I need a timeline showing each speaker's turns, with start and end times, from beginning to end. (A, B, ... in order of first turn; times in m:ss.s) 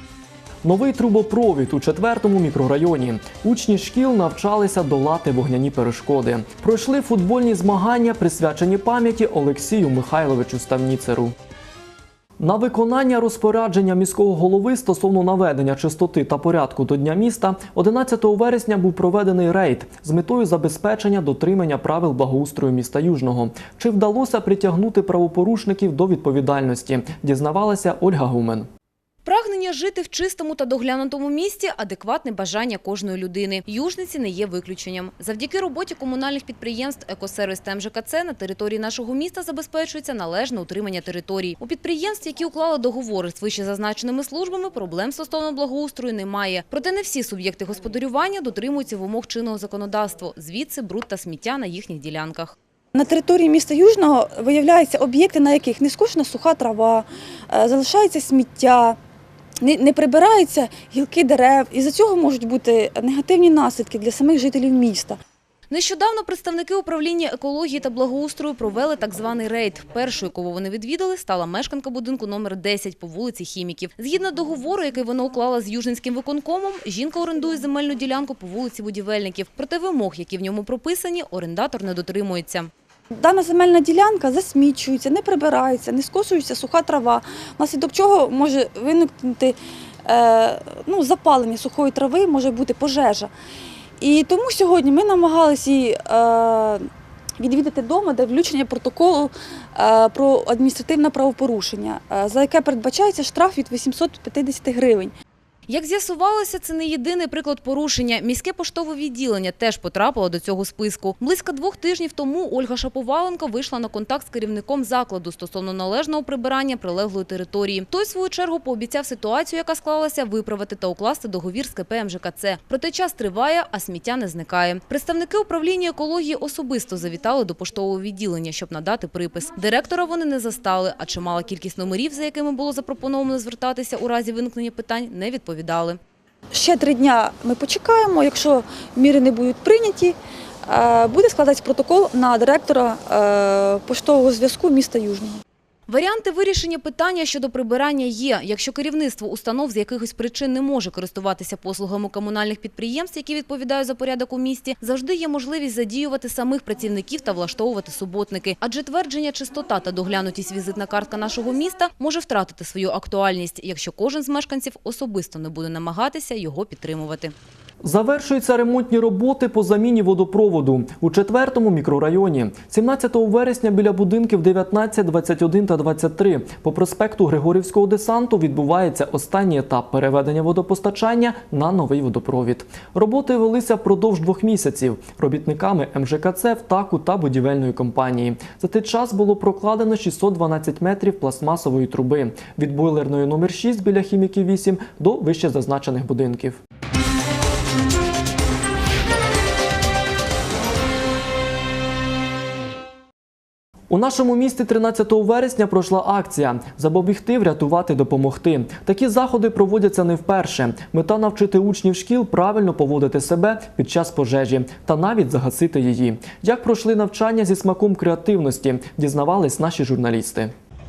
0:00.6-0:11.3 A
0:12.4-0:28.7 A
0:29.2-0:52.6 B
0:52.9-0:59.0 C
0:59.6-1:05.2 C
1:05.7-1:22.7 B
1:23.1-1:29.6 C
1:30.1-1:33.3 C
1:34.0-1:36.9 C
1:37.4-1:45.1 C
1:45.7-2:16.0 B
2:16.5-2:20.2 C
2:20.7-2:25.4 C
2:25.9-2:47.3 B
2:47.8-3:16.6 A
3:23.9-3:40.5 A